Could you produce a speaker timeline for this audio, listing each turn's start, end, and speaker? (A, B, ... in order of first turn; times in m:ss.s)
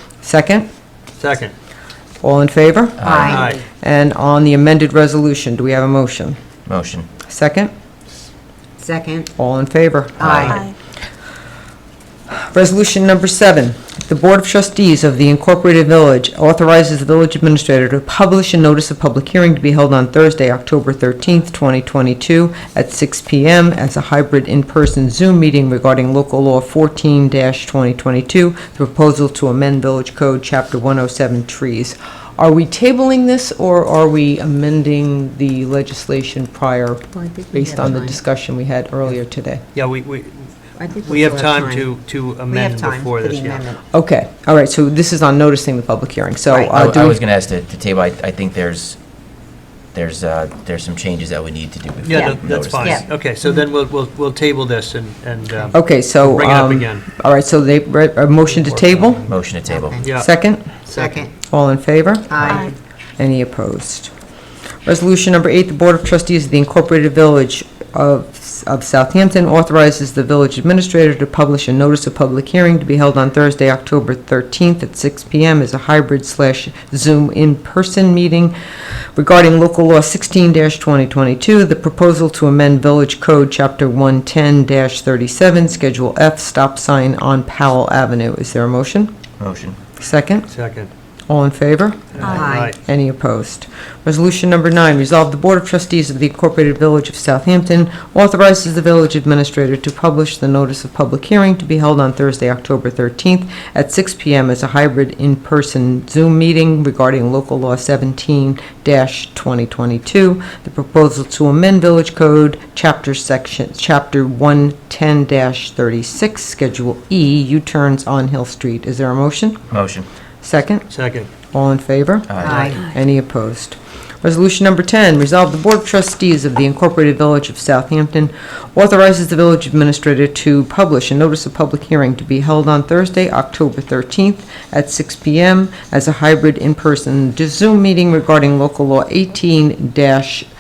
0:00.2-0:00.7 A
0:01.2-0:01.5 B
0:02.2-0:06.4 A
0:03.0-0:03.4 C
0:03.0-0:03.6 D
0:03.2-0:03.6 B
0:06.7-0:07.1 C
0:07.3-0:07.7 A
0:08.8-0:09.3 D
0:09.4-0:10.6 A
0:10.2-0:10.6 C
0:10.3-0:10.6 B
0:12.4-0:39.6 A
0:37.1-0:38.2 D
0:39.7-0:43.7 B
0:40.8-0:41.9 D
0:42.5-0:43.8 D
0:43.9-0:47.2 A
0:46.5-0:46.8 D
0:46.7-0:49.0 C
0:49.9-0:53.0 C
0:52.0-0:57.0 B
0:52.1-0:53.0 D
0:55.7-0:59.2 A
0:58.5-0:59.4 B
0:59.3-1:00.1 C
0:59.7-1:00.1 D
1:00.0-1:00.3 B
1:00.1-1:00.7 A
1:00.9-1:01.2 B
1:00.9-1:01.3 D
1:01.4-1:04.1 A
1:02.3-1:02.8 D
1:04.8-1:18.5 A
1:19.2-1:29.1 A
1:29.4-1:29.8 C
1:30.0-1:30.5 A
1:30.5-1:30.9 B
1:31.3-1:59.6 A
1:32.2-1:32.8 B
1:32.3-1:32.7 D
1:59.7-2:00.1 C
2:00.4-2:00.9 A
2:00.9-2:01.3 B
2:01.5-2:20.5 A
2:02.3-2:02.8 C
2:02.4-2:02.8 D